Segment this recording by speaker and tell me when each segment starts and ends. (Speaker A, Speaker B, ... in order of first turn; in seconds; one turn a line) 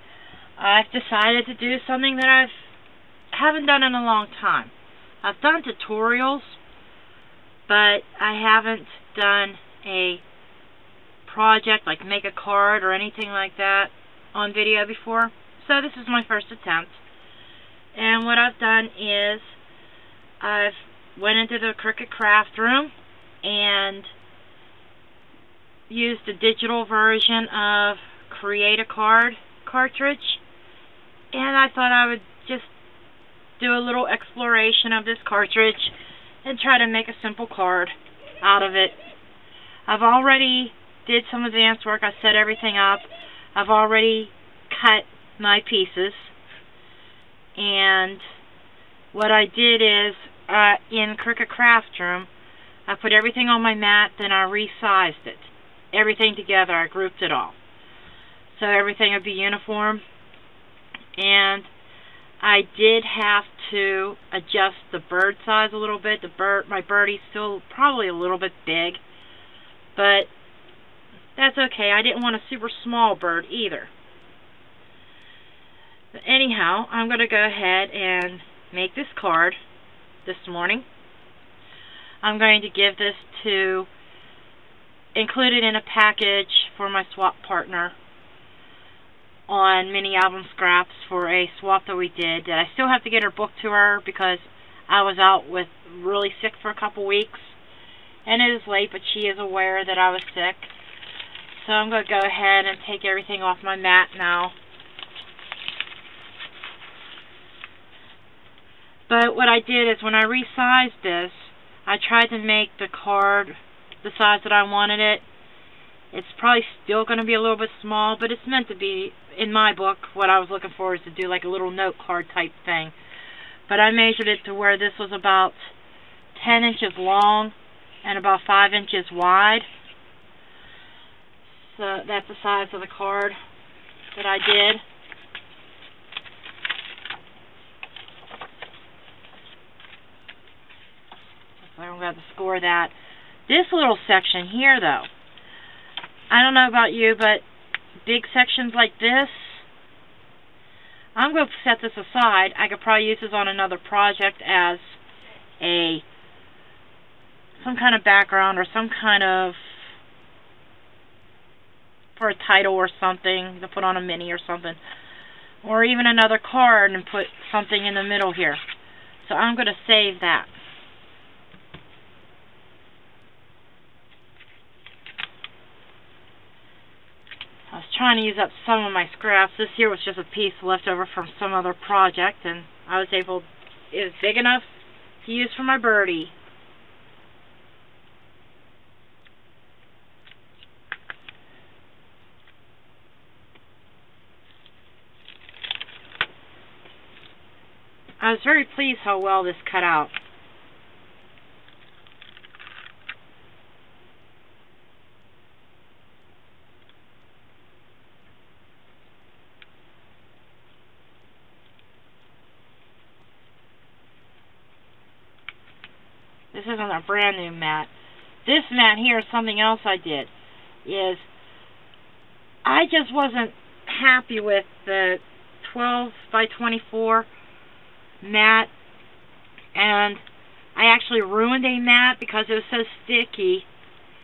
Speaker A: 0.6-2.7
Speaker A: 3.3-6.6
Speaker A: 7.7-10.2
Speaker A: 11.2-17.0
Speaker A: 17.9-19.6
Speaker A: 20.4-24.1
Speaker A: 25.9-30.4
Speaker A: 31.3-32.7
Speaker A: 33.6-39.0
Speaker A: 39.9-46.3
Speaker A: 47.6-48.2
Speaker A: 49.1-52.3
Speaker A: 52.9-57.6
Speaker A: 58.5-60.0
Speaker A: 61.2-61.7
Speaker A: 62.4-69.0
Speaker A: 70.0-70.3
Speaker A: 71.4-73.9
Speaker A: 76.1-79.6
Speaker A: 80.2-80.9
Speaker A: 82.2-83.9
Speaker A: 85.2-88.0
Speaker A: 89.5-97.6
Speaker A: 98.2-100.7
Speaker A: 101.5-104.5
Speaker A: 109.1-115.2
Speaker A: 116.1-123.0
Speaker A: 123.7-125.7
Speaker A: 126.3-129.7
Speaker A: 131.4-133.4
Speaker A: 134.1-134.8
Speaker A: 141.6-142.9
Speaker A: 143.5-145.1
Speaker A: 146.3-147.4
Speaker A: 148.0-149.7
Speaker A: 151.2-155.0
Speaker A: 155.6-156.1
Speaker A: 157.6-159.9
Speaker A: 162.2-164.8
Speaker A: 165.6-168.6
Speaker A: 169.2-170.5
Speaker A: 177.7-184.7
Speaker A: 185.2-186.3
Speaker A: 198.2-200.2
Speaker A: 216.5-217.9
Speaker A: 218.4-220.3
Speaker A: 220.8-221.3
Speaker A: 222.6-227.3
Speaker A: 228.2-228.7
Speaker A: 229.7-230.2
Speaker A: 230.8-233.7